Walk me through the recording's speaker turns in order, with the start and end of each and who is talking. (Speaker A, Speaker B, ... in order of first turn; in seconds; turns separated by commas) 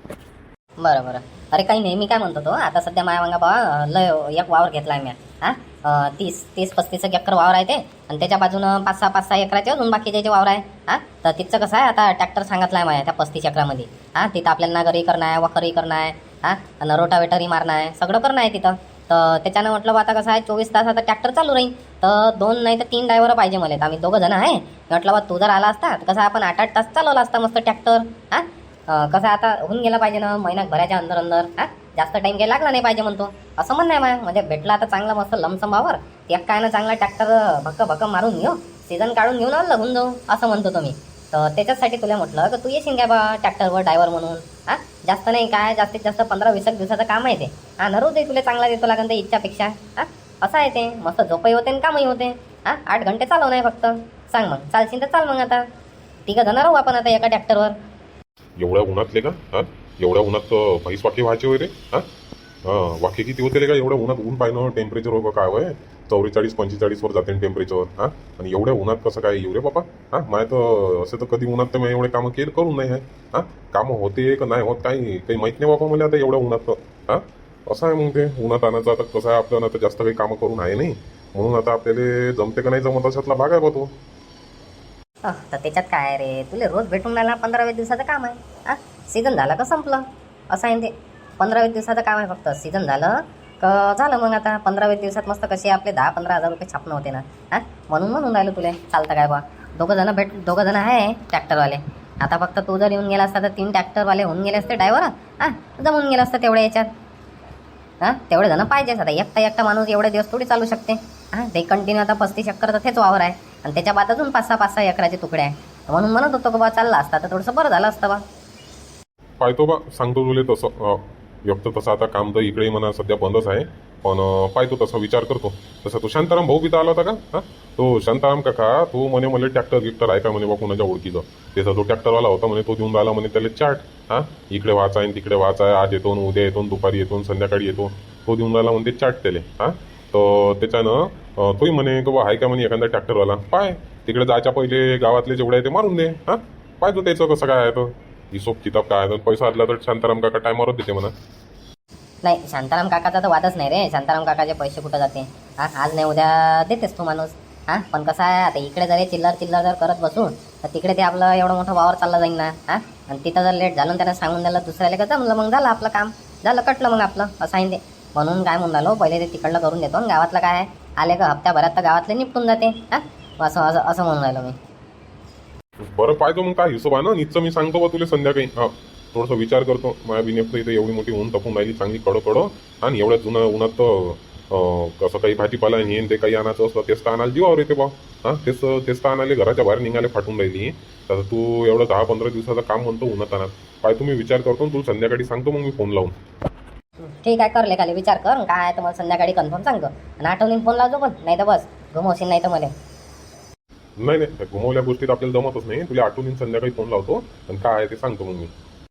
Speaker A: 0.8-55.6, Speaker A: 56.3-57.8, Speaker B: 58.6-62.1, Speaker B: 62.7-83.9, Speaker A: 85.3-106.9, Speaker A: 108.0-118.2, Speaker B: 119.4-151.1, Speaker A: 152.2-174.6, Speaker B: 175.8-196.1, Speaker A: 197.0-202.7, Speaker B: 204.0-208.5